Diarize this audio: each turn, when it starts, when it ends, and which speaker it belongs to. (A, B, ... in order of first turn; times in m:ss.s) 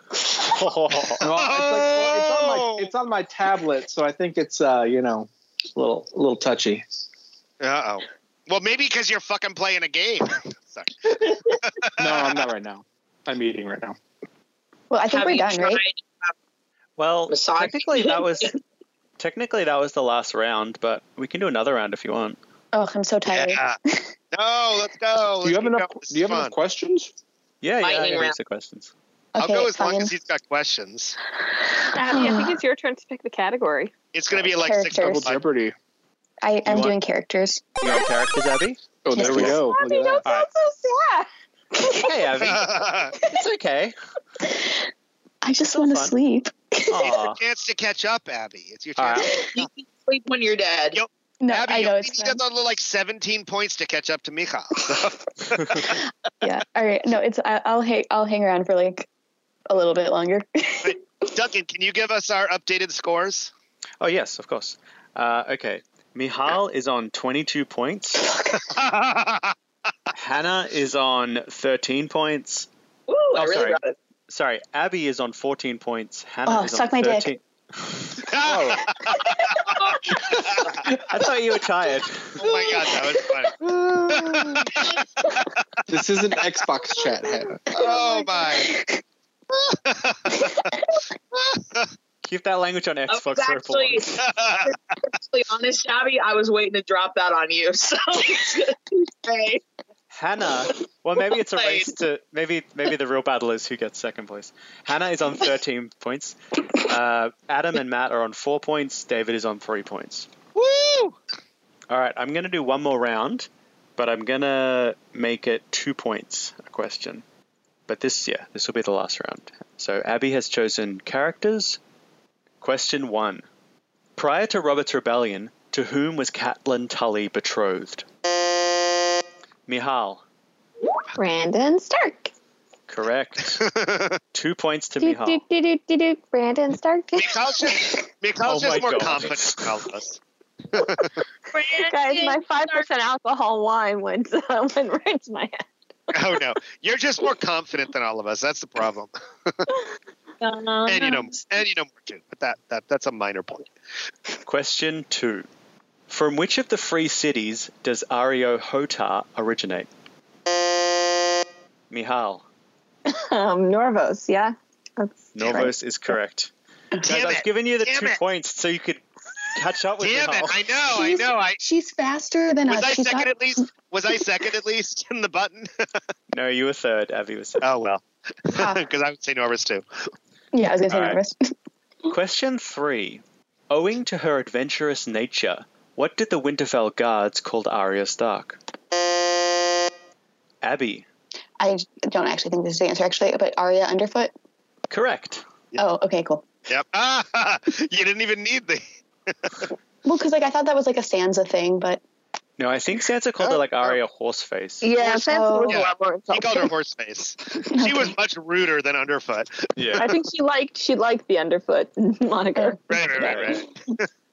0:00.4-0:01.3 A
0:01.2-0:06.8 B
0:01.3-0:02.9 C
0:07.6-0:12.4 C
0:12.0-0:14.0 B
0:14.9-0:15.8 D
0:15.1-0:16.3 E
0:17.0-0:18.5 A
0:17.3-0:18.5 E
0:19.2-0:22.4 A
0:22.7-0:24.1 D
0:23.3-0:23.8 C
0:24.3-0:26.5 C
0:25.4-0:27.1 B
0:27.6-0:28.9 A
0:27.8-0:28.4 E
0:29.3-0:30.1 D
0:29.4-0:31.2 C
0:31.9-0:33.9 F
0:32.0-0:32.6 D
0:34.1-0:35.4 C
0:34.4-0:35.3 D
0:35.0-0:35.7 B
0:36.4-0:37.6 D
0:36.6-0:37.0 A
0:37.8-0:39.6 A
0:39.0-0:40.2 B
0:39.1-0:41.3 F
0:39.2-0:39.6 D
0:41.8-0:42.1 D
0:42.0-0:43.9 A
0:42.4-0:43.2 C
0:44.4-0:44.8 D
0:45.4-0:47.2 D
0:45.7-0:46.2 A
0:46.9-0:47.4 A
0:47.0-0:49.5 C
0:49.0-0:49.3 A
0:49.4-0:51.0 E
0:51.0-0:56.0 C
0:51.4-0:52.4 D
0:55.8-0:59.1 D
0:59.7-1:01.0 D
1:00.8-1:03.5 C
1:04.0-1:08.3 A
1:08.2-1:08.7 D
1:08.6-1:09.5 C
1:10.1-1:12.7 A
1:13.1-1:14.0 E
1:13.3-1:18.2 A
1:16.4-1:17.3 D
1:18.2-1:19.7 C
1:18.4-1:18.9 B
1:20.2-1:20.9 C
1:21.1-1:22.4 A
1:22.4-1:25.4 C
1:22.4-1:22.9 E
1:25.9-1:27.7 B
1:27.7-1:28.7 C
1:27.8-1:29.0 D
1:29.5-1:30.7 C
1:31.5-1:31.9 C
1:32.2-1:34.2 A
1:33.1-1:39.6 E
1:34.2-1:34.7 C
1:40.1-1:50.3 A
1:41.4-1:41.9 E
1:50.5-1:51.2 C
1:51.9-1:57.2 A
1:57.9-2:01.8 A
2:02.6-2:03.4 A
2:04.2-2:08.0 A
2:09.7-2:10.2 A
2:11.1-2:12.3 F
2:12.9-2:13.6 A
2:13.5-2:14.2 C
2:14.3-2:15.4 A
2:15.0-2:17.8 F
2:17.2-2:20.2 C
2:18.4-2:19.7 A
2:20.7-2:21.2 C
2:21.5-2:22.9 E
2:21.7-2:25.6 F
2:26.1-2:29.6 C
2:30.4-2:31.4 E
2:30.8-2:33.7 C
2:34.4-2:35.5 A
2:36.1-2:39.9 A
2:41.9-2:42.4 A
2:43.1-2:45.7 F
2:45.3-2:46.5 A
2:47.0-2:48.2 C
2:47.0-2:50.6 A
2:50.0-2:51.6 C
2:50.9-2:53.6 D
2:52.7-2:55.7 C
2:56.3-2:57.6 A
2:57.6-2:59.8 C
2:58.5-2:58.8 D
3:00.5-3:01.5 D
3:00.9-3:01.2 A
3:02.1-3:08.6 A
3:10.6-3:11.0 A
3:11.6-3:14.3 D
3:14.9-3:15.4 A
3:15.8-3:16.5 D
3:16.7-3:19.6 C
3:20.0-3:22.0 D
3:22.6-3:24.9 A
3:24.8-3:26.7 F
3:25.0-3:25.8 D
3:25.7-3:30.2 C
3:27.7-3:28.1 D
3:29.8-3:30.1 A
3:30.0-3:33.3 F
3:32.5-3:33.5 D
3:32.9-3:34.0 C
3:33.2-3:33.6 A